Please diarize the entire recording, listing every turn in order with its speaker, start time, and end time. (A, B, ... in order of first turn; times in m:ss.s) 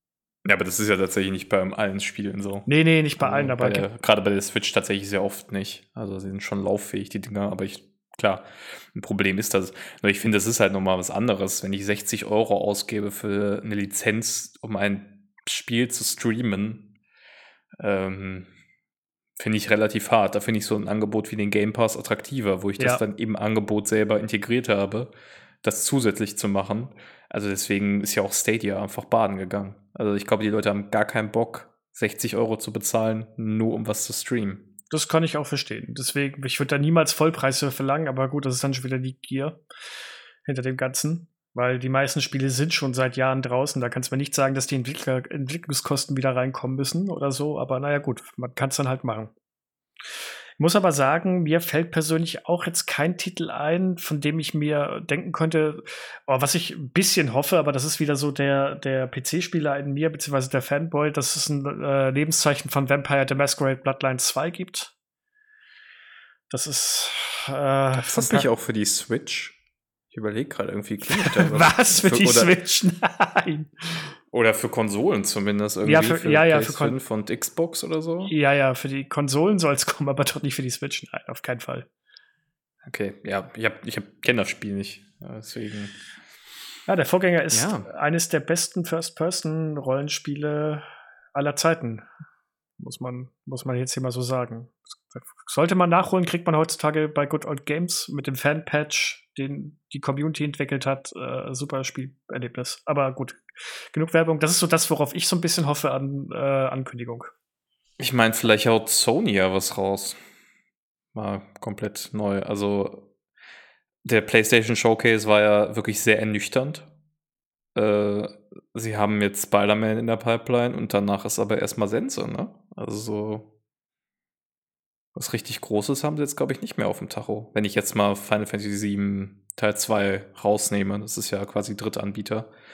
0:00.4-0:16.9 A
0:02.7-0:03.9 B
0:17.8-0:18.5 A
0:19.4-0:25.1 A
0:25.6-0:34.7 A
0:34.9-0:39.6 B
0:40.4-0:49.3 B
0:50.6-1:04.9 B
1:06.5-1:08.5 B
1:07.9-1:09.6 A
1:10.1-1:12.5 A
1:11.1-1:14.1 B
1:14.3-1:18.3 A
1:15.8-1:17.0 B
1:18.3-1:21.9 B
1:22.8-1:26.0 A
1:26.9-1:32.1 B
1:27.5-1:27.9 A
1:32.8-1:47.3 B
1:48.0-1:50.2 A
1:51.1-1:53.1 A
1:54.0-1:56.9 A
1:57.8-2:03.5 A
2:05.2-2:12.5 A